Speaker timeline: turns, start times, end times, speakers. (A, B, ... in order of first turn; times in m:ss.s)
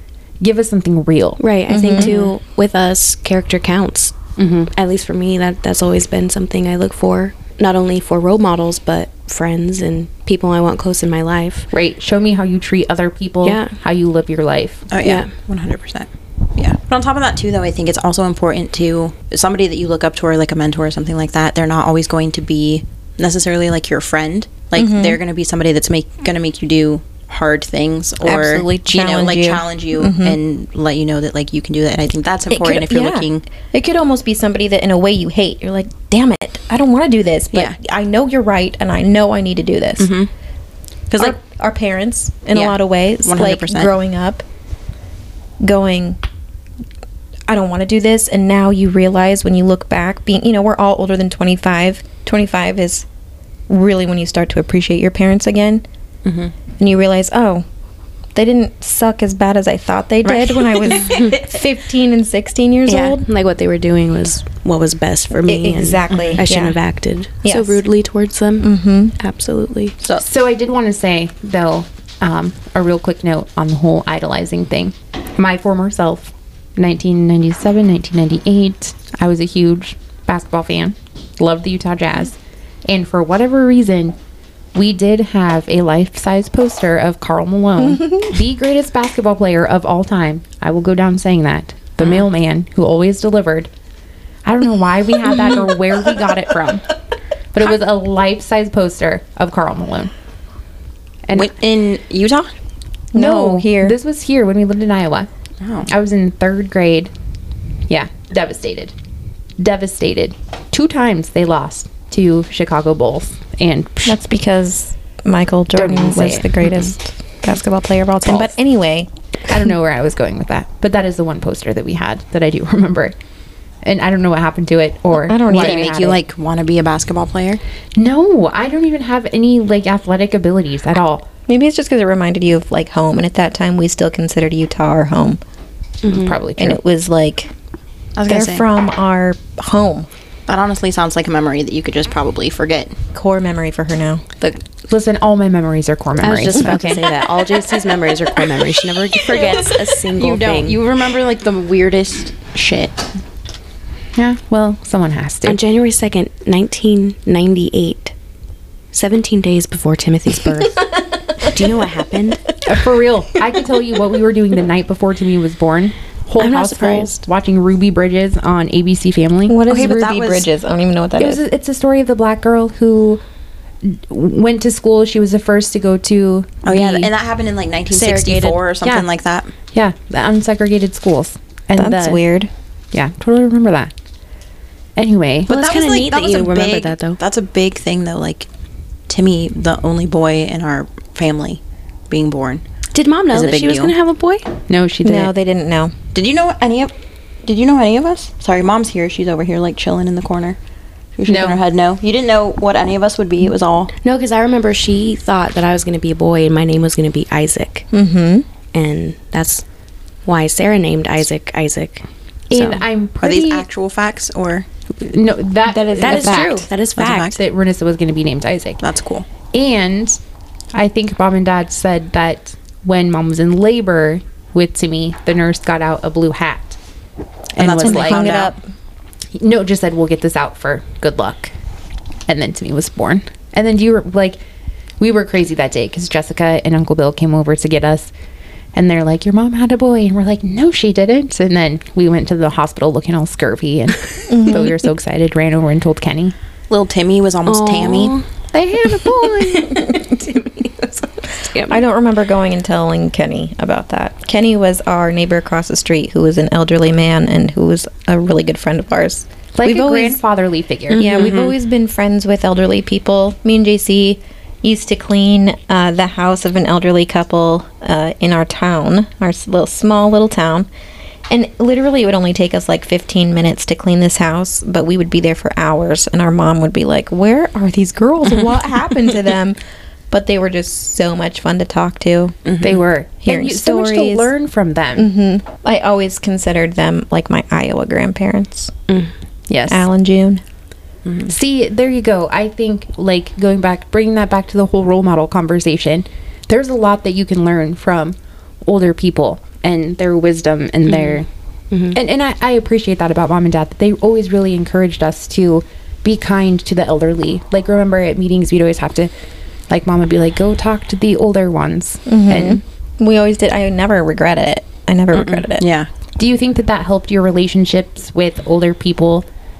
0:00.4-0:01.4 A
0:01.4-0:04.2 B
0:01.7-0:02.1 C
0:02.0-0:02.3 D
0:04.4-0:04.7 A
0:04.7-0:11.7 B
0:11.7-0:14.9 A
0:13.4-0:13.8 B
0:14.9-0:33.5 D
0:15.0-0:15.3 B
0:24.8-0:25.2 C
0:28.2-0:30.4 C
0:32.5-0:40.1 C
0:40.0-0:40.3 D
0:41.1-0:41.4 D
0:41.2-0:44.4 C
0:42.5-0:43.9 D
0:45.6-0:46.2 C
0:47.5-0:53.0 C
0:53.7-0:55.8 C
0:56.8-0:57.6 C
0:58.3-1:03.2 C
1:00.2-1:01.4 D
1:02.9-1:10.0 B
1:05.4-1:06.8 C
1:06.1-1:06.4 D
1:07.4-1:07.8 C
1:08.6-1:09.2 C
1:10.2-1:22.4 A
1:22.9-1:24.1 A
1:24.7-1:33.7 A
1:27.8-1:28.2 C
1:32.0-1:32.2 D
1:34.4-1:36.9 A
1:37.5-1:40.1 A
1:41.3-1:42.5 D
1:43.1-1:44.0 C
1:43.1-1:45.3 A
1:45.6-1:45.9 D
1:45.9-1:47.1 A
1:47.9-1:48.9 A
1:49.6-1:54.2 A
1:54.0-1:59.1 C
1:55.8-1:56.7 A
1:59.5-2:03.1 A
2:03.8-2:06.2 A
2:05.2-2:06.0 C
2:05.5-2:07.6 D
2:08.0-2:11.2 A
2:11.5-2:15.4 C
2:16.0-2:16.4 B
2:16.0-2:16.8 A
2:16.6-2:17.5 C
2:18.2-2:18.7 D
2:18.3-2:20.1 C
2:20.5-2:23.0 D
2:23.1-2:24.4 C
2:24.9-2:27.0 A
2:26.2-2:30.8 B
2:30.2-2:33.0 D
2:34.2-2:35.6 A
2:35.4-2:38.1 B
2:38.9-2:42.4 B
2:40.9-2:41.8 C
2:42.6-2:49.8 A
2:46.4-2:47.1 B
2:49.5-2:51.4 C
2:49.7-2:50.5 D
2:51.2-2:53.2 A
2:53.8-2:57.1 A
2:56.6-2:59.5 D
2:57.9-2:58.6 B
2:58.8-2:59.1 A
2:59.7-3:02.2 A
3:01.8-3:02.5 C
3:02.9-3:03.9 A
3:05.0-3:05.5 A
3:05.5-3:08.5 D
3:05.5-3:07.2 B
3:09.1-3:12.6 D
3:12.9-3:14.5 B
3:13.3-3:13.9 D
3:14.7-3:15.3 A
3:15.0-3:15.9 C
3:16.1-3:16.9 D
3:17.4-3:20.6 D
3:21.2-3:23.9 D
3:21.2-3:21.6 A
3:24.0-3:27.9 B
3:27.9-3:28.4 C
3:28.7-3:29.6 B
3:30.2-3:32.8 B
3:32.5-3:33.6 A
3:33.2-3:34.6 D
3:35.0-3:36.7 A
3:35.7-3:37.4 B
3:36.0-3:36.4 D
3:36.9-3:37.4 D
3:37.3-3:38.8 A
3:38.8-3:39.2 D
3:39.5-3:40.2 A
3:40.7-3:46.8 A
3:47.5-3:48.2 A
3:47.6-3:48.5 D
3:47.8-3:48.6 C
3:49.4-3:51.5 A
3:52.3-3:54.4 A
3:55.0-3:58.1 A
3:58.7-4:06.3 A
4:04.3-4:04.8 C
4:06.7-4:08.2 D
4:07.4-4:08.2 B
4:08.5-4:10.0 A
4:09.6-4:11.0 C
4:11.3-4:11.8 B
4:11.6-4:20.2 C
4:19.6-4:21.2 A
4:20.9-4:21.5 B
4:20.9-4:30.7 C
4:31.3-4:39.6 C
4:40.1-4:42.3 C
4:42.4-4:42.8 D
4:42.6-4:45.1 A
4:43.2-4:44.3 C
4:45.0-4:48.7 C
4:49.5-4:49.8 A
4:49.7-4:50.4 C
4:51.0-4:51.3 D
4:51.2-5:01.3 A
5:00.9-5:02.0 B
5:01.9-5:09.1 A
5:09.7-5:12.6 A
5:12.0-5:15.6 C
5:15.1-5:15.9 D
5:16.2-5:19.2 A